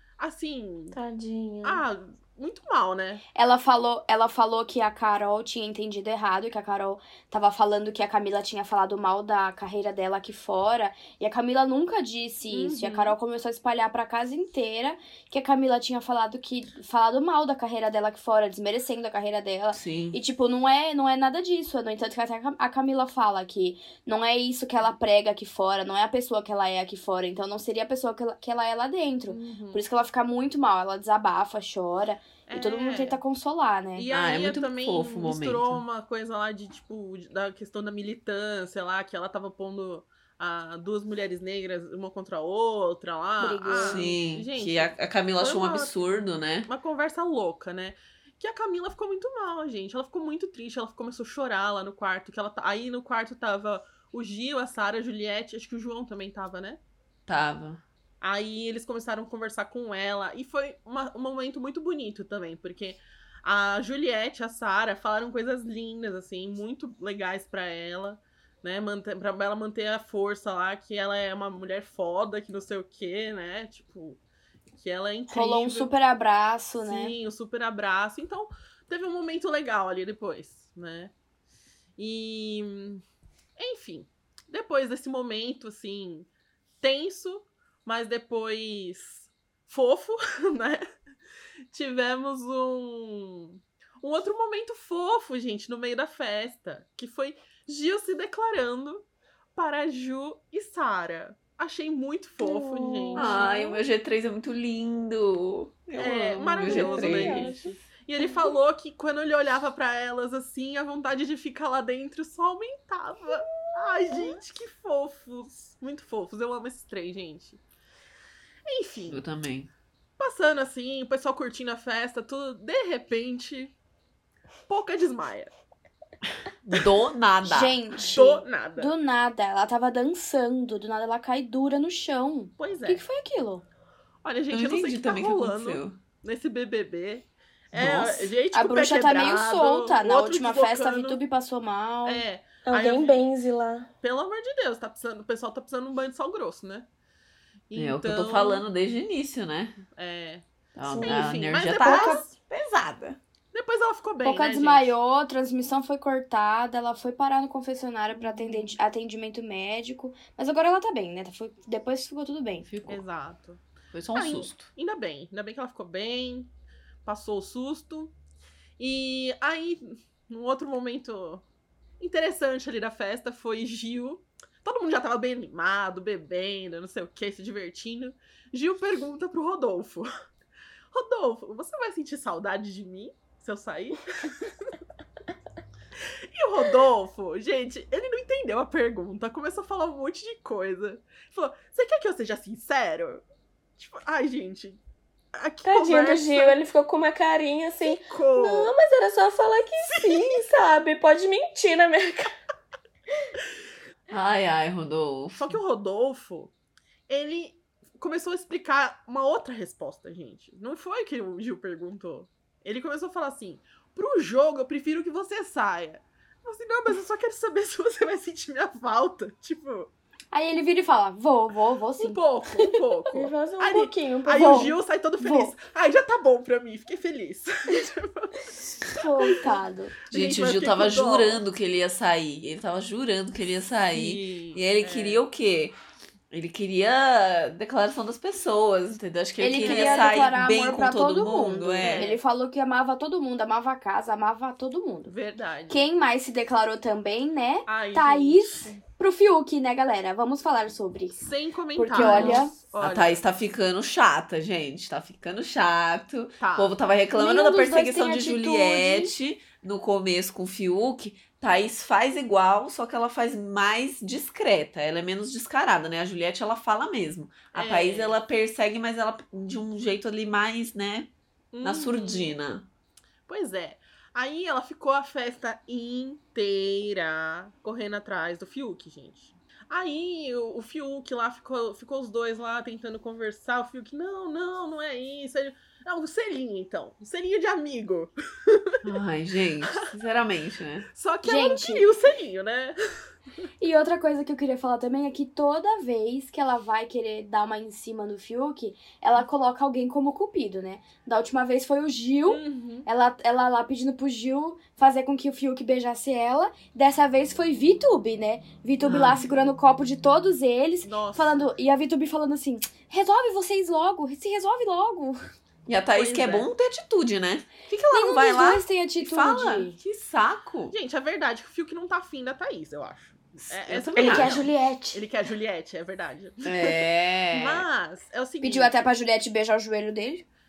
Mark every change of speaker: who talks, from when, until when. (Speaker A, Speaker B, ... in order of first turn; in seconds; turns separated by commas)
Speaker A: 0.2-1.0, Speaker B: 0.9-1.8, Speaker A: 1.6-3.2, Speaker C: 3.4-34.1, Speaker A: 12.5-13.2, Speaker D: 19.7-20.2, Speaker A: 29.3-29.8, Speaker A: 32.5-33.2, Speaker A: 34.0-46.0, Speaker D: 34.1-35.8, Speaker C: 43.4-44.0, Speaker D: 43.9-46.7, Speaker A: 46.7-56.8, Speaker D: 57.3-57.8, Speaker A: 58.2-74.2, Speaker A: 74.8-75.9, Speaker C: 75.3-77.2, Speaker A: 76.8-81.1, Speaker A: 82.0-83.0, Speaker A: 83.6-86.3, Speaker A: 86.8-90.8, Speaker A: 91.7-103.4, Speaker B: 102.4-103.8, Speaker D: 103.2-107.6, Speaker A: 106.0-117.6, Speaker B: 106.6-108.5, Speaker A: 118.7-119.2, Speaker D: 119.1-119.7, Speaker A: 120.2-123.8, Speaker A: 124.7-125.5, Speaker D: 126.6-127.8, Speaker C: 127.4-133.6, Speaker A: 128.0-128.9, Speaker A: 132.6-133.0, Speaker A: 134.2-141.2, Speaker D: 134.5-136.0, Speaker D: 137.7-138.3, Speaker C: 138.5-142.2, Speaker A: 142.1-143.2, Speaker B: 142.7-143.9, Speaker A: 144.0-146.9, Speaker A: 147.7-148.6, Speaker D: 147.8-149.8, Speaker A: 149.9-150.4, Speaker D: 150.8-153.2, Speaker B: 150.9-152.1, Speaker A: 151.0-152.3, Speaker A: 153.5-155.0, Speaker C: 154.2-162.7, Speaker A: 158.1-158.8, Speaker D: 162.6-163.0, Speaker A: 162.9-163.6, Speaker D: 163.9-164.7, Speaker A: 164.2-166.5, Speaker A: 167.1-168.1, Speaker A: 168.8-171.4, Speaker A: 172.0-180.1, Speaker A: 180.9-184.4, Speaker A: 186.3-193.2, Speaker A: 193.8-194.8, Speaker A: 195.3-196.5, Speaker B: 195.7-202.3, Speaker A: 197.8-198.8, Speaker A: 200.0-200.4, Speaker D: 204.1-205.6, Speaker A: 205.3-206.5, Speaker A: 207.1-219.9, Speaker C: 220.3-222.2, Speaker A: 222.0-229.4, Speaker B: 223.1-224.8, Speaker C: 225.2-225.5, Speaker C: 228.9-229.9, Speaker D: 230.1-235.8, Speaker A: 230.1-231.4, Speaker A: 233.9-235.2, Speaker D: 236.3-242.1, Speaker C: 239.4-245.1, Speaker A: 239.6-240.4, Speaker A: 241.8-242.2, Speaker A: 245.1-245.9, Speaker C: 245.7-251.2, Speaker A: 247.7-248.8, Speaker A: 251.2-253.2, Speaker C: 251.8-252.5, Speaker D: 252.0-271.1, Speaker A: 256.4-256.7, Speaker C: 257.1-259.1, Speaker A: 267.5-268.2, Speaker A: 271.5-272.4, Speaker D: 271.6-272.7, Speaker A: 273.3-288.7, Speaker D: 288.8-290.9, Speaker A: 290.9-292.8, Speaker C: 291.2-291.9, Speaker C: 293.6-315.2, Speaker A: 302.3-302.9, Speaker D: 308.8-309.2, Speaker A: 310.9-311.4, Speaker D: 315.7-320.8, Speaker A: 315.9-316.5, Speaker C: 317.9-319.8, Speaker A: 320.7-328.9, Speaker D: 323.6-324.4, Speaker C: 324.0-325.0, Speaker D: 326.4-327.7, Speaker C: 328.4-330.3